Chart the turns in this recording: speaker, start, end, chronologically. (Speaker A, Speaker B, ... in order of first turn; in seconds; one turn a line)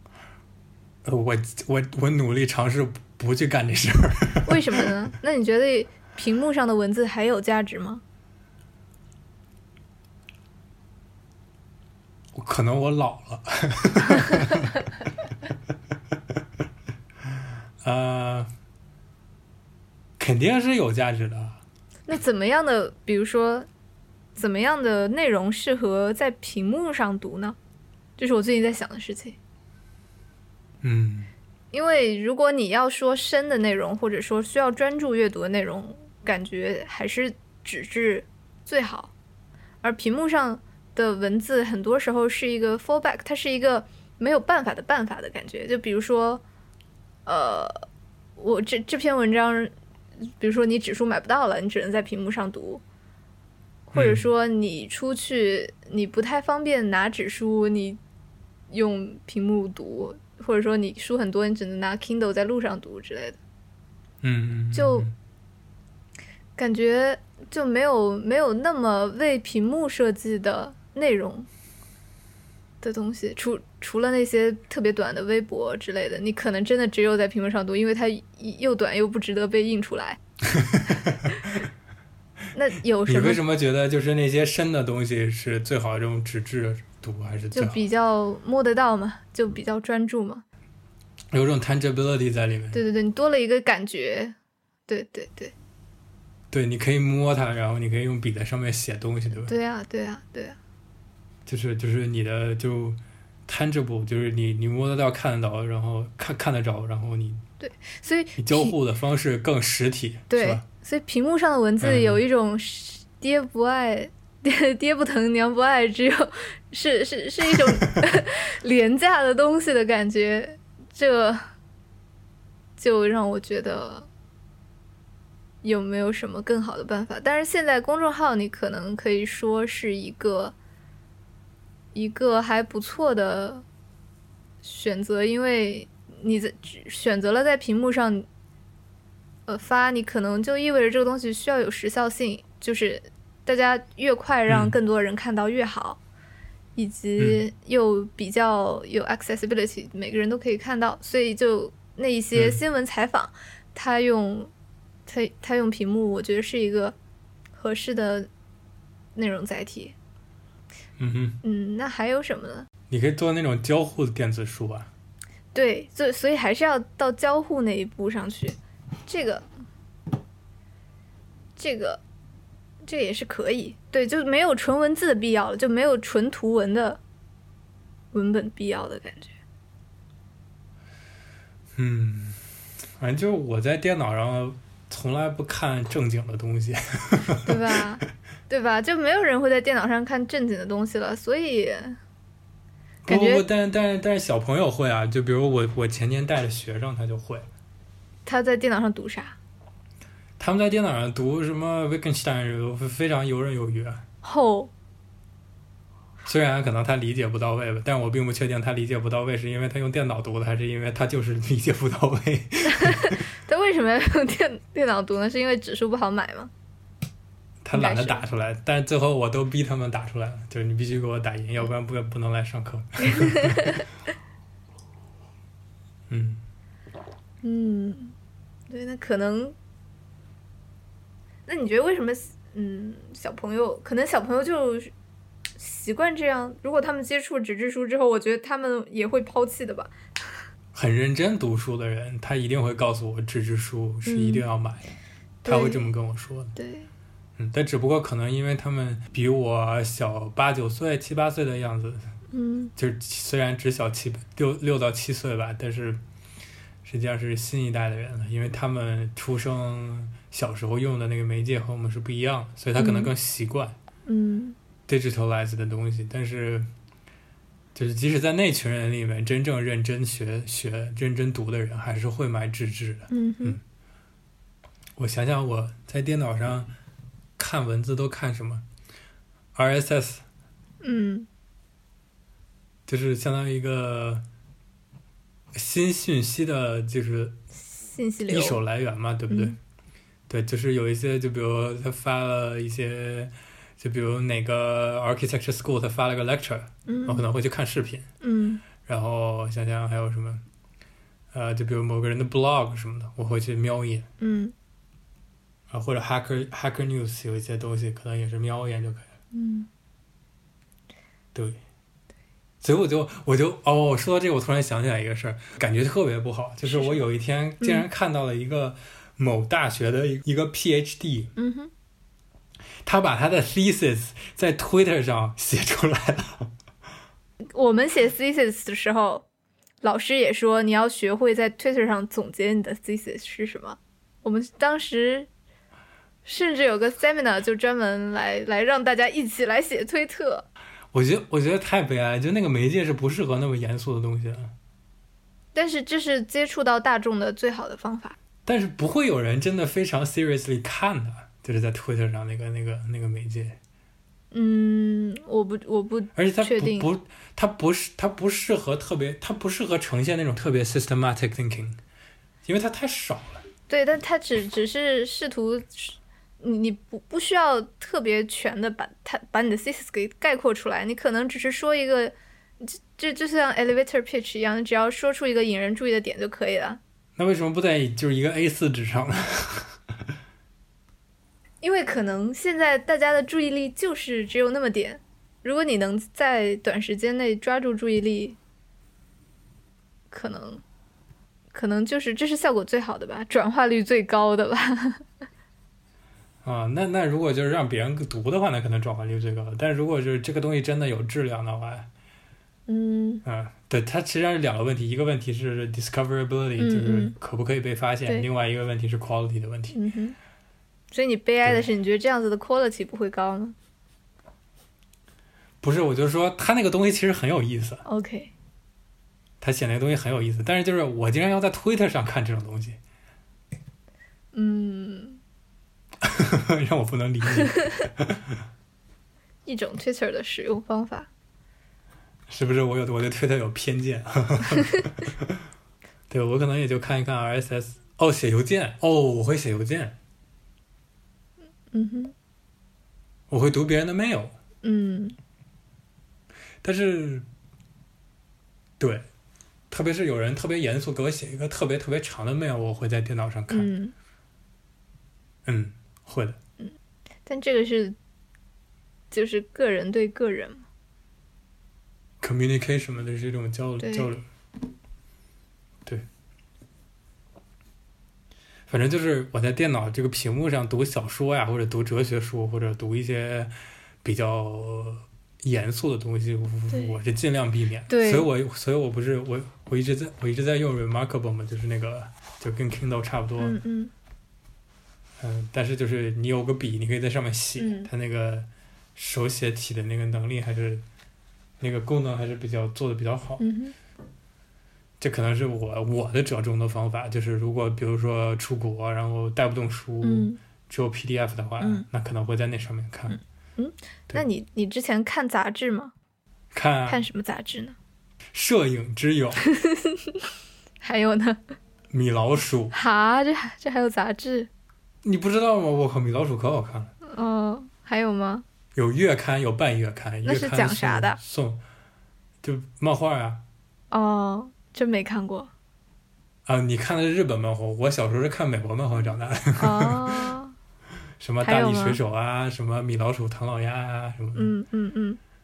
Speaker A: 1.1-4.9
Speaker B: 4.5-8.0
Speaker A: 12.3-14.8
Speaker A: 17.8-18.5
Speaker A: 20.2-21.6
Speaker B: 22.1-23.7
Speaker B: 24.4-27.6
Speaker B: 28.2-29.4
Speaker A: 30.8-31.3
Speaker B: 31.7-39.1
Speaker B: 39.8-46.4
Speaker B: 47.3-47.9
Speaker B: 48.4-49.7
Speaker B: 50.4-52.8
Speaker B: 53.9-58.0
Speaker A: 53.9-54.2
Speaker B: 58.7-63.4
Speaker A: 64.2-65.1
Speaker B: 64.7-65.1
Speaker B: 66.6-71.5
Speaker B: 72.8-80.2
Speaker A: 80.5-81.6
Speaker B: 82.5-83.4
Speaker A: 83.1-87.8
Speaker B: 87.5-90.4
Speaker A: 91.3-92.8
Speaker B: 92.7-94.3
Speaker B: 94.9-95.5
Speaker A: 96.5-99.5
Speaker B: 99.5-100.6
Speaker A: 101.5-107.4
Speaker B: 107.6-108.7
Speaker A: 108.4-110.7
Speaker B: 110.3-121.4
Speaker A: 111.8-112.2
Speaker B: 122.8-124.1
Speaker B: 125.6-130.6
Speaker B: 131.9-133.7
Speaker B: 134.6-138.3
Speaker B: 139.5-146.0
Speaker A: 144.5-144.8
Speaker B: 146.8-154.5
Speaker A: 147.2-147.4
Speaker A: 152.3-152.6
Speaker B: 155.1-157.0
Speaker B: 157.5-158.3
Speaker B: 159.2-160.0
Speaker A: 161.0-161.4
Speaker B: 161.4-162.7
Speaker A: 162.9-164.9
Speaker B: 165.5-169.4
Speaker B: 171.6-172.0
Speaker B: 172.8-177.0
Speaker B: 178.1-179.3
Speaker A: 181.8-182.5
Speaker A: 183.0-187.8
Speaker B: 187.4-192.0
Speaker A: 193.1-197.5
Speaker B: 193.1-193.4
Speaker B: 198.3-199.4
Speaker A: 200.4-204.1
Speaker B: 204.2-204.7
Speaker A: 206.2-213.2
Speaker B: 212.7-216.5
Speaker A: 217.6-223.8
Speaker B: 217.7-218.2
Speaker B: 223.1-223.8
Speaker A: 226.1-226.4
Speaker B: 227.4-228.2
Speaker B: 228.7-229.6
Speaker B: 231.5-234.9
Speaker B: 235.6-240.4
Speaker A: 240.7-244.9
Speaker B: 244.1-244.5
Speaker B: 245.4-245.9
Speaker A: 245.5-246.6
Speaker B: 246.6-246.9
Speaker A: 247.4-252.1
Speaker B: 252.3-252.7
Speaker A: 252.8-256.0
Speaker A: 256.8-263.8
Speaker B: 262.8-263.1
Speaker B: 264.1-264.6
Speaker A: 264.9-266.7
Speaker A: 267.8-273.6
Speaker B: 273.1-273.6
Speaker A: 275.0-276.7
Speaker A: 277.4-278.6
Speaker A: 279.6-280.2
Speaker B: 280.8-281.3
Speaker A: 282.9-284.2
Speaker A: 285.5-287.4
Speaker B: 287.6-288.6
Speaker A: 288.3-289.6
Speaker B: 289.3-289.6
Speaker A: 290.3-298.1
Speaker B: 296.9-297.2
Speaker B: 298.2-298.6
Speaker A: 298.9-300.4
Speaker A: 301.3-304.1
Speaker B: 304.2-304.5
Speaker A: 305.7-309.1
Speaker B: 309.3-309.7
Speaker A: 311.3-311.6
Speaker A: 312.6-321.3
Speaker B: 316.6-317.0
Speaker B: 317.6-317.9
Speaker B: 321.4-321.7
Speaker A: 322.8-326.5
Speaker B: 327.5-329.3
Speaker B: 329.8-335.3
Speaker B: 336.2-340.5
Speaker A: 340.9-344.5
Speaker B: 345.6-348.2
Speaker A: 348.5-353.6
Speaker B: 354.3-356.9
Speaker A: 356.1-361.8
Speaker A: 362.4-363.4
Speaker B: 363.7-376.8
Speaker A: 377.2-379.8
Speaker B: 381.6-388.4
Speaker B: 390.1-390.6
Speaker B: 391.5-395.1
Speaker A: 396.4-401.9
Speaker B: 402.7-403.2
Speaker A: 403.2-409.8
Speaker B: 406.6-407.2
Speaker B: 409.7-410.2
Speaker B: 410.9-413.6
Speaker A: 415.6-417.8
Speaker B: 417.9-418.3
Speaker A: 419.4-422.8
Speaker B: 424.3-425.2
Speaker A: 426.0-428.4
Speaker B: 429.5-431.1
Speaker A: 432.3-435.4
Speaker A: 436.1-440.0
Speaker B: 441.7-442.1
Speaker A: 443.3-444.4
Speaker B: 444.6-445.2
Speaker A: 446.6-447.3
Speaker A: 448.8-449.1
Speaker A: 449.7-453.7
Speaker B: 453.5-453.9
Speaker A: 455.4-456.4
Speaker B: 457.3-458.0
Speaker B: 459.1-460.7
Speaker A: 462.2-464.3
Speaker B: 463.8-464.1
Speaker A: 468.7-473.5
Speaker A: 474.0-483.6
Speaker B: 476.7-477.0
Speaker B: 477.9-478.3
Speaker B: 483.4-483.9
Speaker A: 485.2-490.8
Speaker B: 487.6-487.9
Speaker A: 491.6-493.5
Speaker B: 493.4-493.8
Speaker A: 495.0-503.2
Speaker B: 500.0-500.4
Speaker B: 501.6-501.9
Speaker B: 503.1-505.9
Speaker A: 506.5-507.0
Speaker B: 506.9-507.8
Speaker A: 508.3-509.4
Speaker B: 509.4-510.2
Speaker B: 510.8-511.6
Speaker A: 511.9-512.7
Speaker B: 512.7-514.5
Speaker A: 515.0-516.9
Speaker B: 517.0-518.5
Speaker A: 518.8-521.6
Speaker B: 520.2-521.2
Speaker A: 522.4-523.4
Speaker B: 523.9-525.5
Speaker A: 526.5-530.3
Speaker B: 529.6-530.6
Speaker A: 531.2-534.5
Speaker B: 531.4-532.0
Speaker B: 534.4-535.2